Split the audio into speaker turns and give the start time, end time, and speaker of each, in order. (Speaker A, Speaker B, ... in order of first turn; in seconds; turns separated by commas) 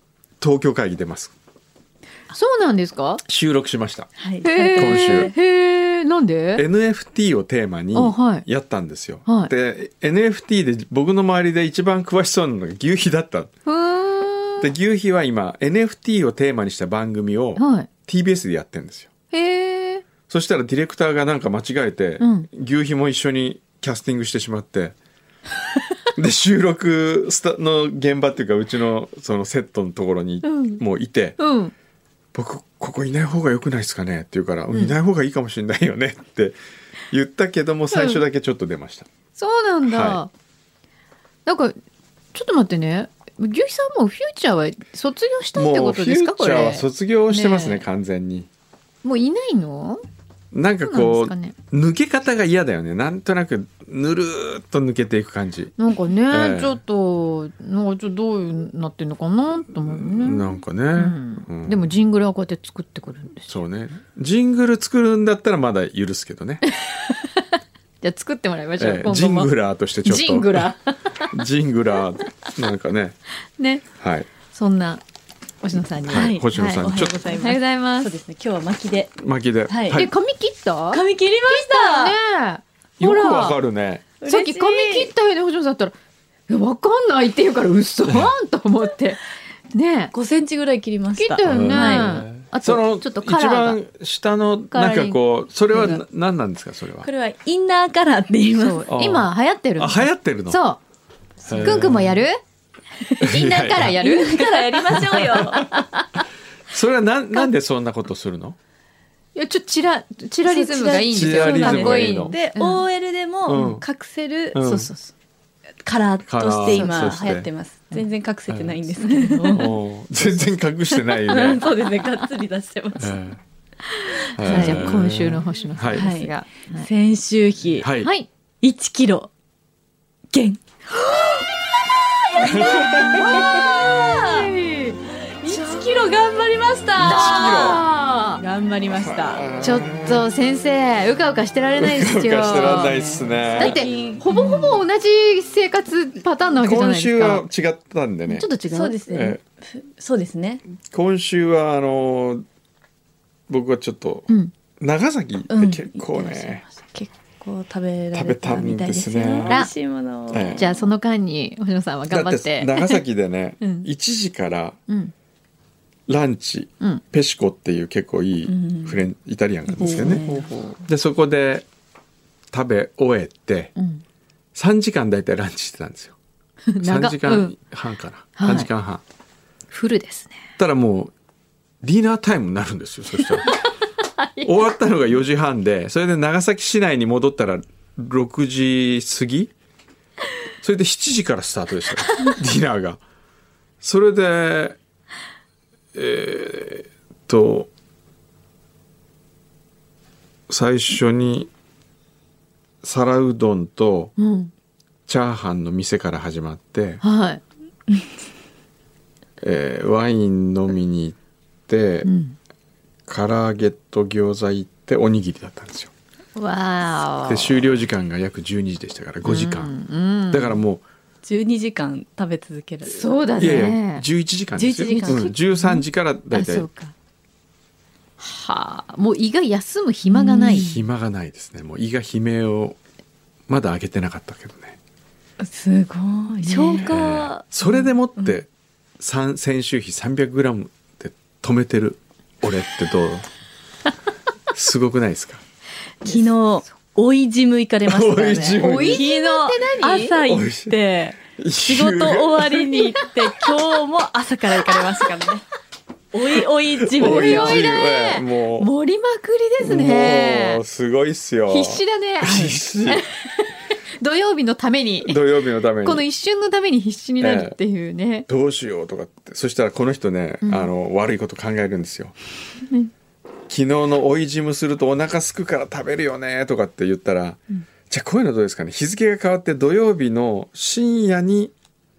Speaker A: 0.4-1.3, Speaker B: 2.3-3.2, Speaker A: 3.2-4.1, Speaker C: 4.2-5.3, Speaker B: 4.4-6.6, Speaker A: 4.8-5.3, Speaker A: 6.5-13.5, Speaker B: 7.9-8.4, Speaker B: 9.2-9.5, Speaker B: 13.6-14.7, Speaker A: 14.6-19.1, Speaker B: 17.6-17.9, Speaker B: 19.3-20.0, Speaker A: 20.3-24.9, Speaker B: 22.2-22.5, Speaker A: 26.1-31.4, Speaker B: 30.4-30.8, Speaker B: 31.4-31.7, Speaker A: 32.3-36.6, Speaker A: 37.1-39.1, Speaker B: 37.9-38.2, Speaker B: 39.4-40.3, Speaker A: 39.8-40.2, Speaker B: 41.5-41.7, Speaker B: 42.3-47.9, Speaker A: 45.5-48.5, Speaker B: 49.0-50.0, Speaker A: 50.5-55.7, Speaker B: 50.8-51.5, Speaker B: 55.8-63.5, Speaker A: 56.3-56.8, Speaker A: 59.8-61.9, Speaker A: 63.5-66.6, Speaker B: 66.8-67.4, Speaker B: 68.0-69.5, Speaker A: 68.8-70.7, Speaker B: 70.0-71.3, Speaker A: 71.3-73.2, Speaker B: 73.6-73.8, Speaker A: 74.0-74.3, Speaker B: 74.5-75.0, Speaker B: 75.6-78.1, Speaker A: 76.0-77.2, Speaker C: 76.1-79.1, Speaker A: 79.2-80.1, Speaker C: 79.7-80.0, Speaker B: 79.9-83.6, Speaker C: 80.9-82.2, Speaker A: 83.0-84.0, Speaker C: 84.2-85.1, Speaker B: 84.2-86.0, Speaker B: 86.5-90.1, Speaker A: 88.0-88.3, Speaker C: 90.1-92.2, Speaker B: 91.2-93.8, Speaker A: 91.5-97.1, Speaker B: 94.7-95.1, Speaker C: 95.7-96.0, Speaker C: 97.0-98.8, Speaker B: 98.5-100.8, Speaker A: 98.9-100.6, Speaker A: 101.5-102.2, Speaker B: 101.5-102.4, Speaker B: 103.2-106.2, Speaker A: 103.2-104.0, Speaker C: 103.9-105.7, Speaker A: 105.0-105.6, Speaker A: 106.7-108.6, Speaker B: 109.3-112.8, Speaker C: 110.4-114.9, Speaker A: 111.1-112.3, Speaker A: 113.5-113.8, Speaker A: 114.5-114.9, Speaker B: 114.6-115.0, Speaker C: 115.8-119.7, Speaker A: 116.2-117.5, Speaker B: 116.7-117.2, Speaker A: 118.5-118.8, Speaker B: 119.0-119.7, Speaker A: 119.5-121.6, Speaker C: 121.0-123.2, Speaker A: 123.0-123.4, Speaker B: 124.2-126.9, Speaker A: 124.4-126.1, Speaker C: 124.4-125.0, Speaker C: 125.9-127.9, Speaker A: 127.8-128.1, Speaker B: 128.0-128.3, Speaker C: 128.6-129.3, Speaker C: 130.3-131.4, Speaker C: 132.3-134.5, Speaker B: 132.4-136.1, Speaker A: 132.4-133.4, Speaker C: 135.4-139.4, Speaker A: 137.0-137.8, Speaker B: 137.0-138.4, Speaker A: 138.9-140.3, Speaker B: 139.6-143.0, Speaker A: 141.8-143.8, Speaker C: 142.5-144.8, Speaker B: 143.6-147.5, Speaker A: 146.6-148.5, Speaker B: 148.3-149.1, Speaker C: 148.7-150.6, Speaker A: 149.1-149.4, Speaker A: 150.9-152.4, Speaker A: 153.5-156.6, Speaker C: 155.5-160.9, Speaker A: 158.1-159.7, Speaker B: 159.4-159.7, Speaker A: 160.3-160.6, Speaker B: 160.5-163.0, Speaker A: 162.1-164.8, Speaker B: 163.6-163.9, Speaker B: 164.9-165.1, Speaker A: 166.1-170.3, Speaker C: 168.4-169.1, Speaker C: 169.7-170.5, Speaker B: 170.2-170.8, Speaker A: 170.9-171.7, Speaker A: 172.5-173.7, Speaker B: 173.8-174.0, Speaker A: 174.5-176.2, Speaker B: 176.7-177.5, Speaker A: 176.8-179.0, Speaker B: 178.3-178.7, Speaker B: 179.7-180.4, Speaker A: 180.6-181.1, Speaker A: 181.8-183.5, Speaker B: 183.5-184.7, Speaker A: 184.4-189.5, Speaker A: 190.6-193.0, Speaker A: 193.8-194.8, Speaker A: 195.9-197.7, Speaker A: 200.5-201.5, Speaker A: 202.8-204.1, Speaker B: 204.2-204.5, Speaker A: 205.1-207.0, Speaker B: 207.0-207.4, Speaker A: 209.4-211.2, Speaker A: 211.7-212.1, Speaker B: 212.0-212.4, Speaker A: 213.1-215.9, Speaker B: 216.3-217.8, Speaker A: 217.2-219.7, Speaker B: 219.2-220.6, Speaker A: 220.3-220.8, Speaker C: 221.2-223.7, Speaker B: 222.9-224.0, Speaker A: 223.4-226.7, Speaker C: 224.6-225.3, Speaker B: 224.9-226.9, Speaker B: 228.2-230.7, Speaker C: 230.1-230.8, Speaker A: 230.4-232.8, Speaker A: 233.5-234.8, Speaker C: 235.4-238.3, Speaker B: 236.4-236.9, Speaker A: 236.8-238.5, Speaker A: 239.0-243.2, Speaker A: 244.5-245.4, Speaker C: 246.0-255.4, Speaker A: 247.8-249.1, Speaker B: 248.6-250.2, Speaker A: 250.2-250.8, Speaker A: 251.3-252.6, Speaker C: 256.1-257.6, Speaker A: 256.8-258.7, Speaker B: 257.0-260.6, Speaker A: 259.6-263.1, Speaker B: 261.5-265.3, Speaker C: 262.2-262.5, Speaker A: 265.0-266.0, Speaker B: 265.8-268.3, Speaker A: 267.2-267.6, Speaker A: 268.3-272.1, Speaker B: 270.4-270.7, Speaker A: 273.5-281.5